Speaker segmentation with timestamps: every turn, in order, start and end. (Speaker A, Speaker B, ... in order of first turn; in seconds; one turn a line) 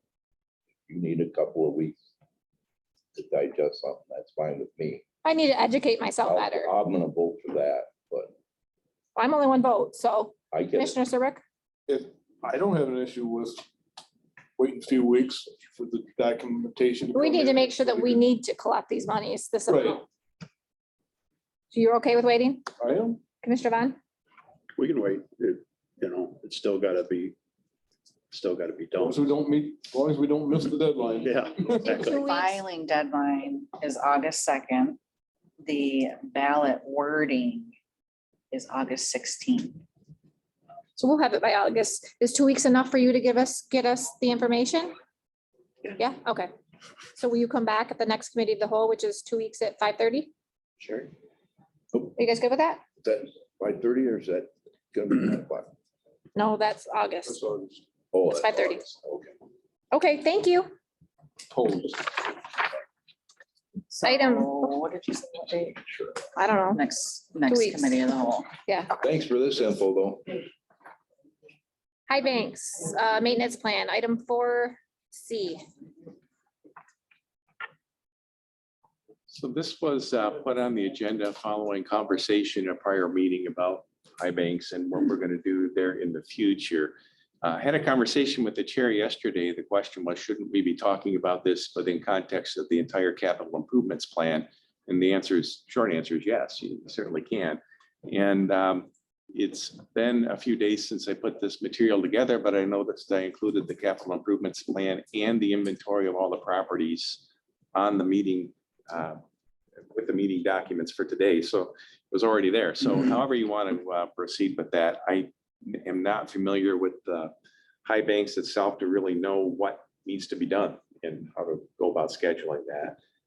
Speaker A: 0.9-2.0
Speaker A: 3.1-5.0
Speaker B: 5.2-6.7
Speaker A: 6.2-8.3
Speaker B: 9.2-11.4
Speaker A: 10.5-11.0
Speaker C: 11.9-13.7
Speaker C: 14.6-18.3
Speaker B: 17.1-19.9
Speaker C: 19.7-20.0
Speaker B: 21.7-22.7
Speaker C: 22.8-23.2
Speaker B: 23.4-24.0
Speaker D: 24.8-27.4
Speaker D: 28.3-29.1
Speaker C: 29.0-32.2
Speaker D: 31.2-32.1
Speaker E: 31.8-35.0
Speaker B: 32.0-32.6
Speaker E: 35.6-37.8
Speaker E: 38.5-39.8
Speaker B: 41.0-45.0
Speaker B: 46.0-46.5
Speaker B: 47.2-50.3
Speaker A: 50.8-51.1
Speaker B: 52.2-52.8
Speaker A: 53.0-55.7
Speaker B: 56.4-57.4
Speaker C: 57.3-57.8
Speaker A: 58.1-59.3
Speaker B: 58.4-58.9
Speaker B: 59.9-60.7
Speaker C: 61.5-62.1
Speaker E: 63.9-65.8
Speaker B: 64.0-64.7
Speaker B: 66.4-66.8
Speaker E: 66.7-68.5
Speaker B: 67.5-68.0
Speaker B: 68.7-68.9
Speaker A: 69.0-70.3
Speaker B: 72.1-75.7
Speaker F: 79.3-107.2
Speaker F: 107.8-109.2
Speaker F: 109.9-117.3
Speaker F: 117.8-123.0